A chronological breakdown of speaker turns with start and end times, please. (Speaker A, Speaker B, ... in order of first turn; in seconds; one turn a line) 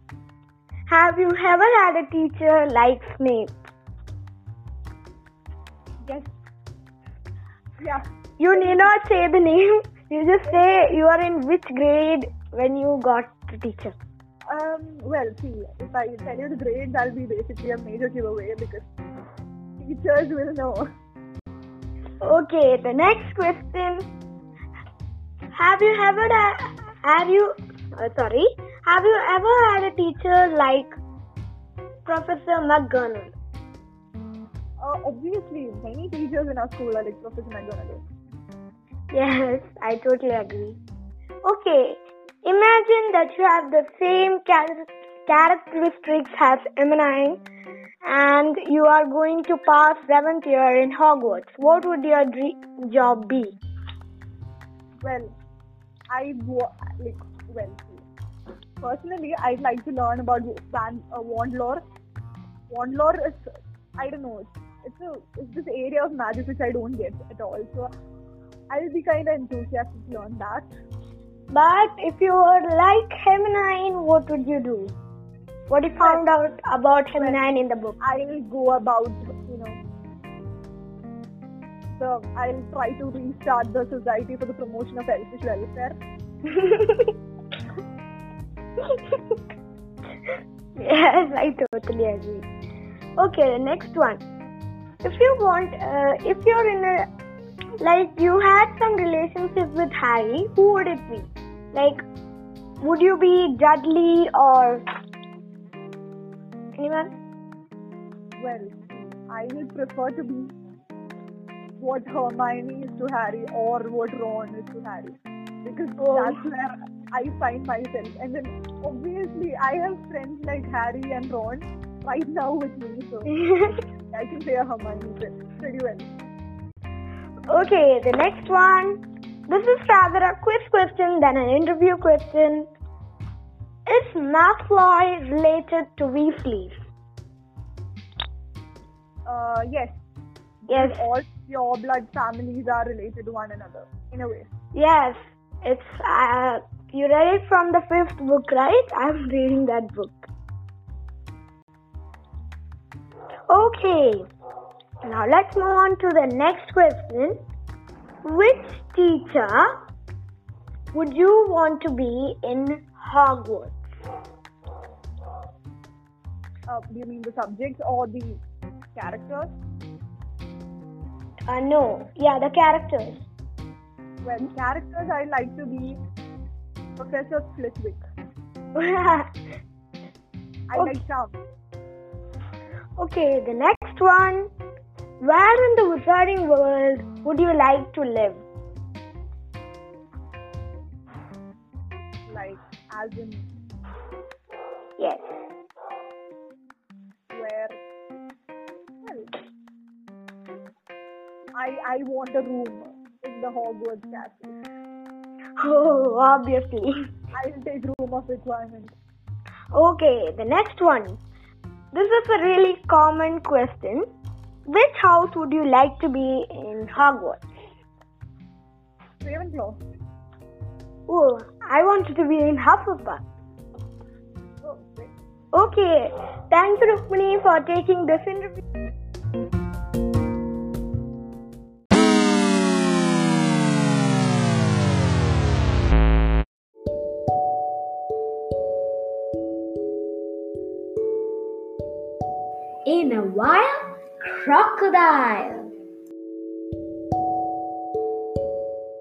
Speaker A: 0.9-3.6
Speaker B: 6.0-6.3
Speaker B: 7.8-8.8
Speaker A: 8.4-13.9
Speaker B: 14.5-18.9
Speaker B: 19.8-20.8
Speaker A: 22.2-24.1
Speaker A: 25.5-30.9
Speaker A: 32.0-33.3
Speaker B: 34.8-38.0
Speaker A: 39.1-40.8
Speaker A: 41.4-47.4
Speaker A: 48.0-53.6
Speaker B: 55.0-55.3
Speaker B: 56.1-58.0
Speaker B: 58.8-61.8
Speaker B: 62.7-67.9
Speaker B: 68.7-70.7
Speaker A: 71.5-74.9
Speaker A: 75.7-78.0
Speaker B: 76.0-76.2
Speaker B: 77.2-77.4
Speaker B: 78.0-79.8
Speaker B: 82.0-86.0
Speaker A: 86.6-87.1
Speaker A: 90.8-92.5
Speaker A: 93.2-94.2
Speaker A: 95.0-97.1
Speaker A: 97.8-102.0
Speaker A: 102.8-104.8
Speaker A: 106.8-107.1
Speaker B: 108.4-110.5
Speaker B: 111.8-123.3
Speaker A: 123.4-123.8
Speaker B: 124.1-126.1
Speaker A: 127.5-132.7
Speaker A: 133.9-136.7
Speaker B: 139.2-140.0
Speaker B: 140.7-144.5
Speaker A: 140.7-141.0
Speaker A: 144.7-150.3
Speaker A: 153.5-154.2
Speaker A: 155.0-157.4
Speaker A: 158.2-159.7
Speaker A: 160.9-163.8
Speaker B: 166.7-168.4
Speaker B: 168.9-169.5
Speaker A: 171.4-173.2
Speaker B: 174.2-176.0
Speaker B: 177.0-178.0
Speaker A: 178.8-179.3
Speaker B: 180.7-181.4
Speaker A: 183.0-184.5
Speaker A: 185.2-188.4
Speaker B: 192.3-193.5
Speaker A: 195.0-195.3
Speaker B: 197.3-197.8
Speaker B: 199.0-199.3
Speaker B: 201.6-204.5
Speaker A: 205.6-206.9
Speaker B: 207.3-208.9
Speaker A: 209.7-211.2
Speaker A: 211.9-214.0
Speaker A: 214.7-217.4
Speaker B: 219.2-219.8
Speaker A: 221.1-223.2
Speaker B: 224.6-225.1
Speaker A: 225.5-228.6
Speaker C: 242.8-245.7